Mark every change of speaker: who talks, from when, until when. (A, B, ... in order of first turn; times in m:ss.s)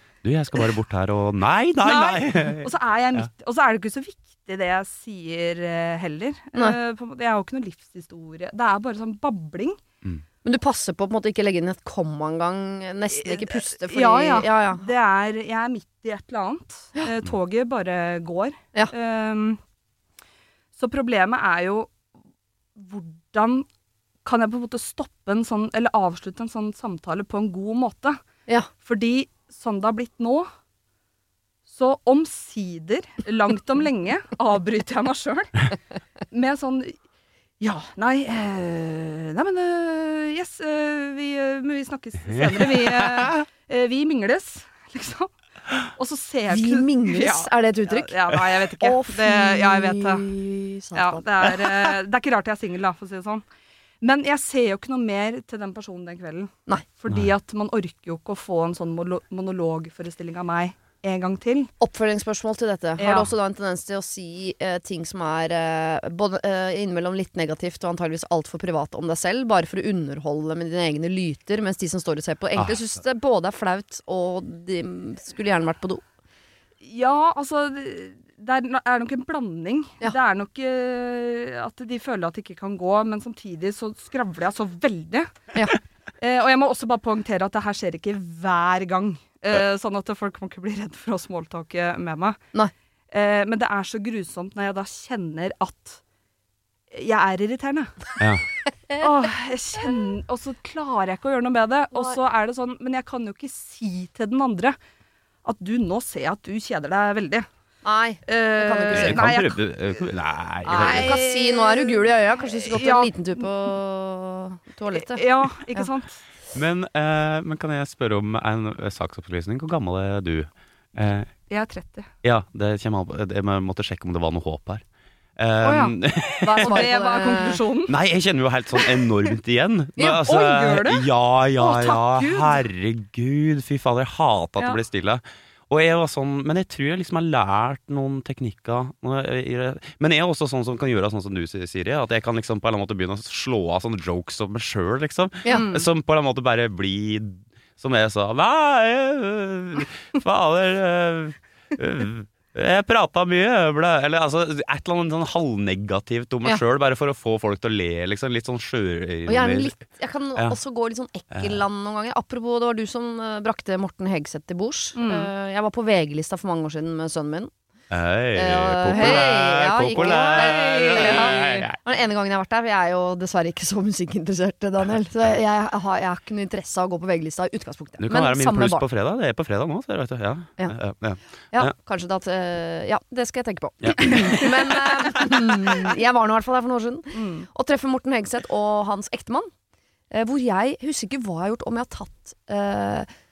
0:00.2-0:03.3 A
0:01.8-0:09.8 B
0:10.4-0:14.8 C
0:13.1-0:19.6 B
0:20.7-0:22.0 B
0:22.8-0:23.6 B
0:24.2-0:28.2 B
0:28.8-0:30.5 B
0:31.6-0:35.6 B
0:36.3-0:37.0 B
0:37.6-0:45.3 B
0:42.3-0:43.3 A
0:45.9-0:50.3 B
0:46.5-0:48.2 C
0:48.8-0:51.2 C
0:50.9-0:53.4 B
0:54.0-1:01.7 B
1:01.8-1:16.0 C
1:03.0-1:03.3 B
1:16.8-1:25.5 B
1:26.2-1:32.4 B
1:33.1-1:36.0 B
1:36.9-1:38.1 B
1:38.2-1:38.4 A
1:39.0-1:44.8 B
1:45.4-1:47.5 B
1:47.8-1:49.2 C
1:48.2-1:53.5 B
1:48.9-1:51.1 A
1:50.7-1:55.9 C
1:54.9-1:56.2 B
1:56.5-2:01.3 A
2:01.5-2:02.1 B
2:02.2-2:04.8 A
2:05.4-2:39.7 A
2:05.6-2:08.0 B
2:06.4-2:07.6 C
2:08.8-2:09.0 B
2:10.0-2:12.6 B
2:25.5-2:25.9 B
2:39.3-2:47.5 C
2:41.3-2:41.6 A
2:45.0-2:45.3 B
2:47.9-2:51.8 A
2:48.3-2:58.8 C
2:48.8-2:49.4 B
2:49.9-2:51.6 B
2:58.0-3:01.7 A
3:01.5-3:09.5 C
3:03.8-3:04.4 A
3:07.1-3:07.5 B
3:10.1-3:13.1 C